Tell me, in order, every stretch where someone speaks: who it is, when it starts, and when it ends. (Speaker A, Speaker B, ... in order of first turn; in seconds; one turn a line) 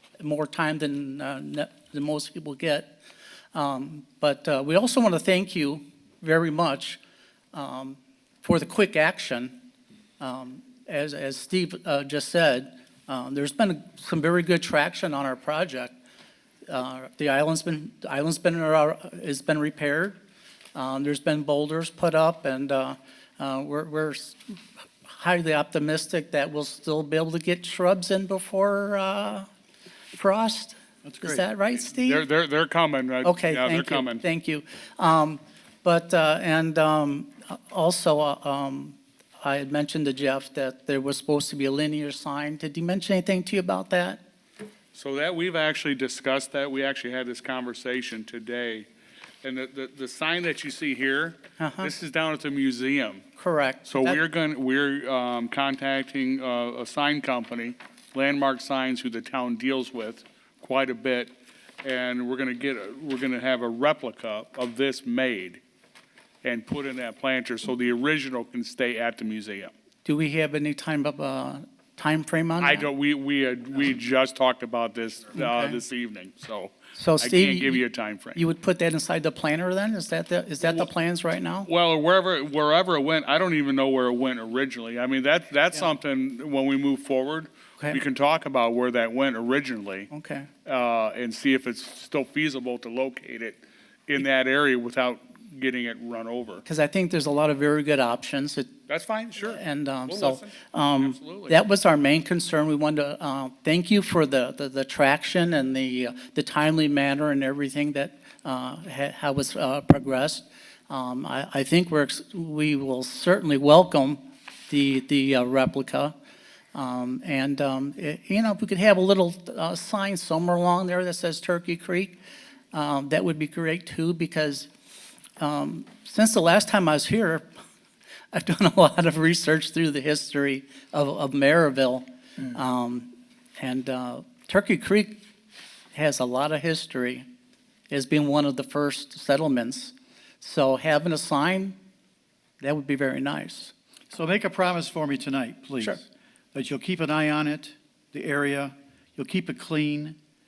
Speaker A: 0.2-3.0
Speaker A: 3.5-7.0
Speaker A: 7.5-9.6
Speaker A: 10.2-15.9
Speaker A: 16.7-20.2
Speaker A: 20.8-29.5
Speaker A: 30.1-32.2
Speaker B: 31.0-31.4
Speaker C: 32.0-34.2
Speaker A: 33.2-44.2
Speaker C: 44.9-48.9
Speaker C: 49.4-53.3
Speaker A: 51.6-51.9
Speaker A: 53.4-54.2
Speaker C: 53.9-61.3
Speaker C: 61.8-65.6
Speaker C: 66.4-69.7
Speaker A: 70.0-72.9
Speaker C: 72.6-78.4
Speaker A: 75.3-75.8
Speaker A: 77.0-77.8
Speaker A: 78.3-81.7
Speaker C: 81.7-90.1
Speaker A: 90.1-90.5
Speaker C: 90.7-96.6
Speaker A: 96.7-98.7
Speaker C: 98.9-101.6
Speaker A: 99.5-116.2
Speaker A: 116.7-122.2
Speaker A: 122.7-124.7
Speaker A: 125.4-127.5
Speaker A: 128.3-135.2
Speaker A: 135.9-137.3
Speaker A: 137.9-141.8
Speaker A: 142.6-143.7
Speaker B: 144.1-150.2